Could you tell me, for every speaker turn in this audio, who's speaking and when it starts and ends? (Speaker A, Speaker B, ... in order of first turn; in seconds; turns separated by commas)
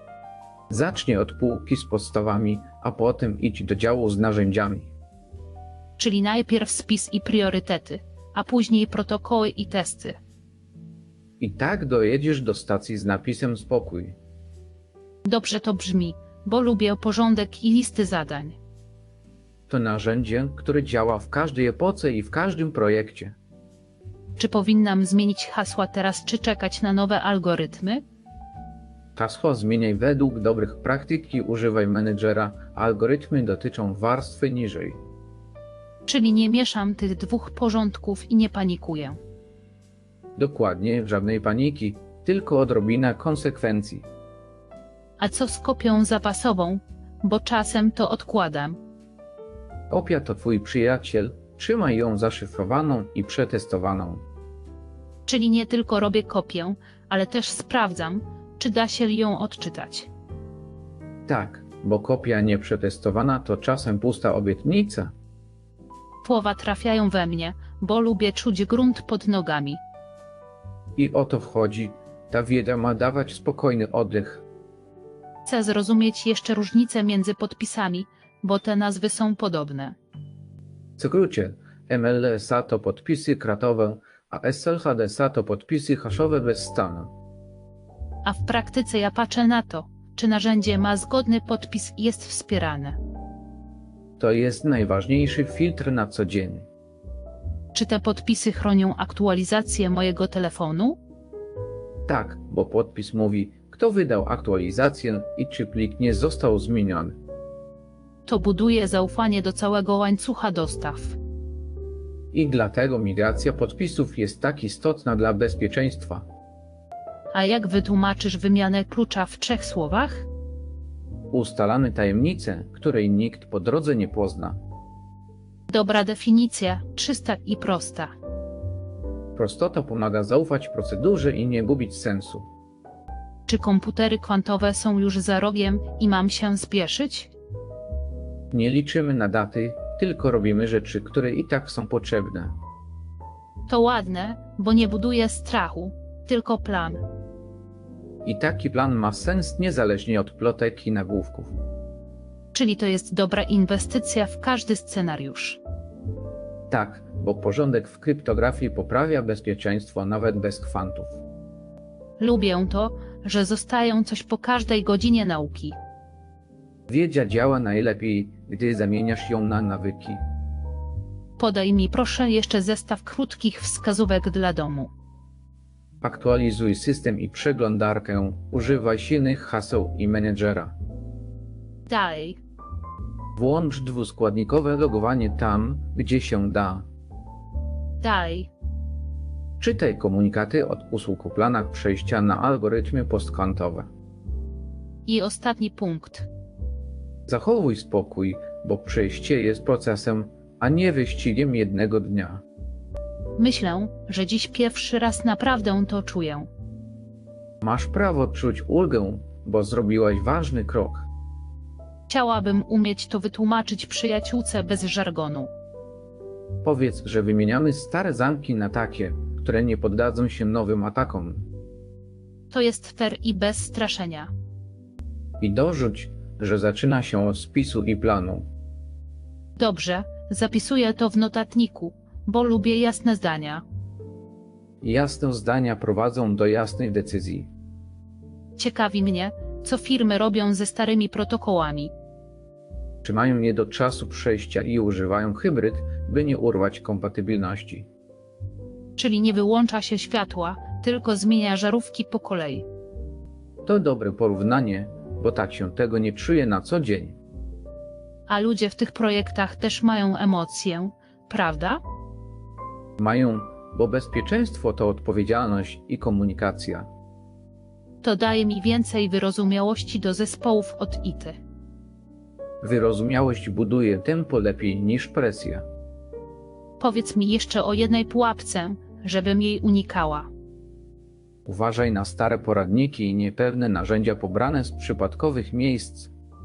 Speaker A: 0.7-4.9, Speaker B: 6.0-10.2, Speaker A: 11.4-14.2, Speaker B: 15.2-18.6, Speaker A: 19.7-23.3, Speaker B: 24.4-28.0, Speaker A: 29.1-35.0, Speaker B: 36.1-39.2, Speaker A: 40.4-44.0, Speaker B: 45.2-48.8, Speaker A: 49.9-54.2, Speaker B: 55.3-60.1, Speaker A: 61.2-65.1, Speaker B: 66.2-69.8, Speaker A: 71.0-74.4, Speaker B: 75.5-79.9, Speaker A: 81.0-87.1, Speaker B: 88.2-93.0, Speaker A: 94.2-96.7, Speaker B: 97.7-101.0, Speaker A: 102.1-107.2, Speaker B: 108.2-111.2, Speaker A: 112.3-116.2, Speaker B: 117.3-120.2, Speaker A: 121.3-124.6, Speaker B: 125.7-128.1, Speaker A: 129.3-132.4, Speaker B: 133.5-137.3, Speaker A: 138.5-142.6, Speaker B: 143.7-147.0, Speaker A: 148.2-151.5, Speaker B: 152.5-155.6, Speaker A: 156.7-161.2, Speaker B: 162.2-165.8, Speaker A: 166.9-170.2, Speaker B: 171.4-174.9, Speaker A: 176.0-180.7, Speaker B: 181.9-182.4, Speaker A: 183.3-186.8, Speaker B: 188.0-188.5, Speaker A: 189.6-193.9, Speaker B: 195.1-196.2, Speaker A: 197.3-202.4, Speaker B: 203.4-206.5, Speaker A: 207.6-211.1, Speaker B: 212.1-215.5, Speaker A: 216.6-221.4, Speaker B: 222.5-224.3, Speaker A: 225.4-228.5, Speaker B: 229.6-233.6, Speaker A: 234.8-237.5, Speaker B: 238.6-241.9, Speaker A: 243.0-247.9, Speaker B: 249.0-252.6, Speaker A: 253.6-257.2, Speaker B: 258.3-261.8, Speaker A: 263.0-266.9, Speaker B: 268.0-271.4, Speaker A: 272.6-275.6, Speaker B: 276.8-280.3, Speaker A: 281.4-286.1